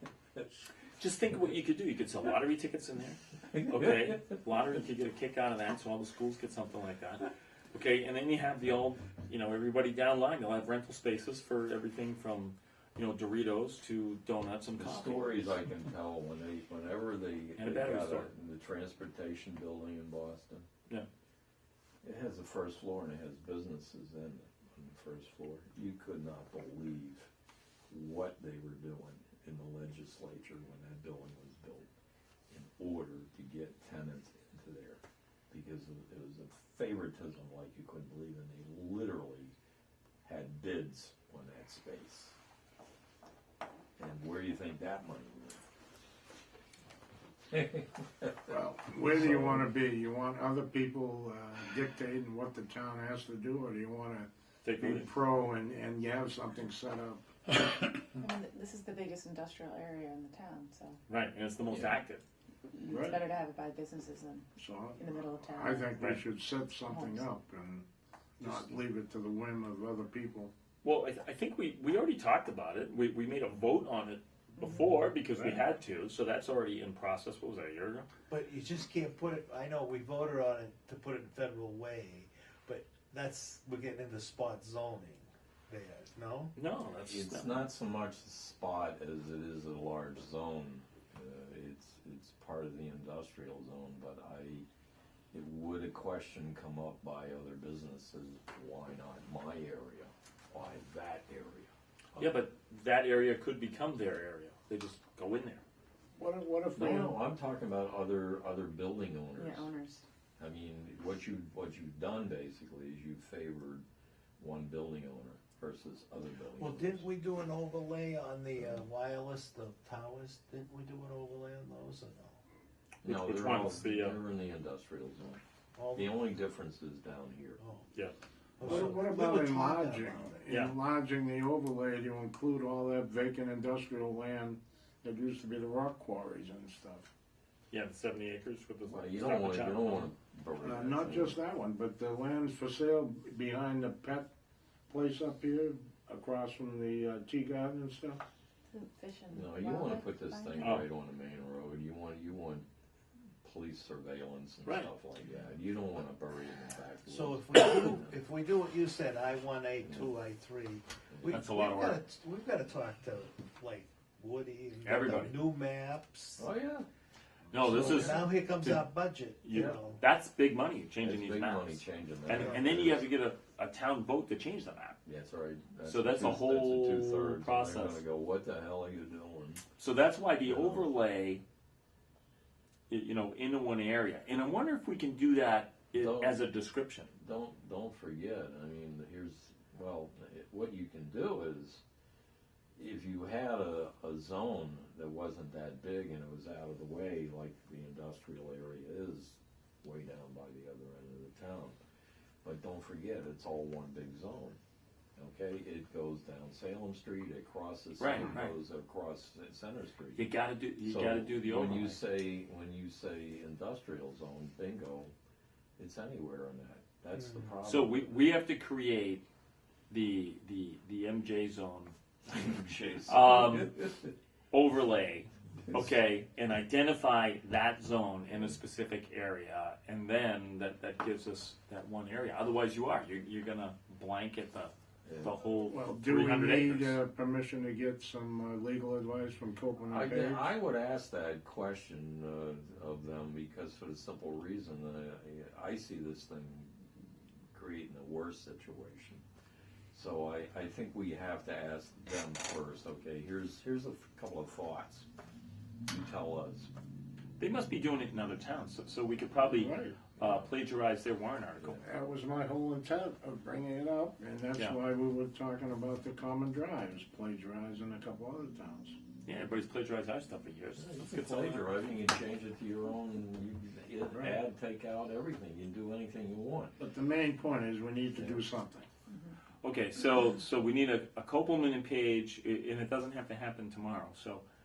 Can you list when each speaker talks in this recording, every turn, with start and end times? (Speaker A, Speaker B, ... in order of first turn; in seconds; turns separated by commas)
Speaker A: 1.0-15.6, Speaker B: 3.5-4.4, Speaker B: 14.8-20.6, Speaker A: 17.6-18.3, Speaker B: 22.0-27.3, Speaker B: 27.9-31.9, Speaker B: 32.5-39.5, Speaker B: 40.2-42.4, Speaker B: 44.0-45.6, Speaker B: 47.5-48.4, Speaker C: 48.5-57.3, Speaker B: 49.2-49.7, Speaker A: 54.6-55.1, Speaker D: 58.2-61.0, Speaker A: 61.1-62.2, Speaker B: 61.7-62.0, Speaker D: 62.7-66.1, Speaker C: 62.9-63.2, Speaker C: 64.6-67.8, Speaker D: 66.9-67.3, Speaker C: 68.4-70.5, Speaker A: 68.4-68.7, Speaker A: 70.8-78.1, Speaker E: 78.3-86.5, Speaker A: 86.6-87.6, Speaker B: 87.0-94.7, Speaker B: 95.3-102.4, Speaker A: 102.2-105.6, Speaker C: 106.2-107.2, Speaker B: 106.8-109.7, Speaker D: 109.3-110.0, Speaker B: 110.4-113.8, Speaker B: 114.4-117.0, Speaker E: 116.6-122.4, Speaker B: 123.0-125.4, Speaker A: 123.0-124.2, Speaker E: 125.8-126.2, Speaker B: 125.9-127.6, Speaker E: 127.6-127.9, Speaker A: 127.9-129.0, Speaker E: 128.6-130.5, Speaker C: 128.6-137.1, Speaker A: 130.5-130.8, Speaker A: 137.7-140.1, Speaker B: 138.8-141.4, Speaker C: 140.6-144.3, Speaker C: 144.9-148.2, Speaker D: 148.7-150.8, Speaker B: 149.3-152.7, Speaker B: 153.4-158.2, Speaker A: 154.7-154.9, Speaker E: 157.1-166.5, Speaker B: 159.8-160.1, Speaker B: 161.1-161.4, Speaker A: 161.3-162.0, Speaker A: 164.8-165.4, Speaker B: 166.4-166.9, Speaker A: 167.5-168.9, Speaker B: 167.6-168.2, Speaker E: 167.6-170.0, Speaker A: 169.4-175.0, Speaker B: 169.5-169.8, Speaker B: 171.0-173.1, Speaker E: 172.3-172.8, Speaker B: 175.1-179.6, Speaker A: 175.8-178.0, Speaker A: 179.8-181.4, Speaker B: 180.4-180.9, Speaker A: 182.9-187.1, Speaker B: 185.9-186.4, Speaker B: 187.2-191.8, Speaker B: 192.8-201.8, Speaker B: 202.4-204.6, Speaker B: 205.2-210.3, Speaker A: 208.0-208.6, Speaker A: 210.2-212.0, Speaker B: 210.8-215.1, Speaker B: 215.8-218.1, Speaker E: 217.2-217.5, Speaker A: 217.6-219.2, Speaker A: 219.9-221.9, Speaker B: 222.3-224.2, Speaker A: 223.1-223.7, Speaker A: 224.5-237.0, Speaker B: 235.1-235.4, Speaker C: 235.7-240.4, Speaker B: 239.9-249.2, Speaker B: 249.9-255.1, Speaker B: 255.9-256.7, Speaker A: 257.4-261.8, Speaker C: 259.5-260.0, Speaker B: 260.2-260.5, Speaker C: 261.8-269.0, Speaker A: 264.5-264.8, Speaker A: 269.2-271.7, Speaker B: 270.8-276.8, Speaker C: 274.1-274.4, Speaker C: 276.8-278.9, Speaker A: 279.6-284.4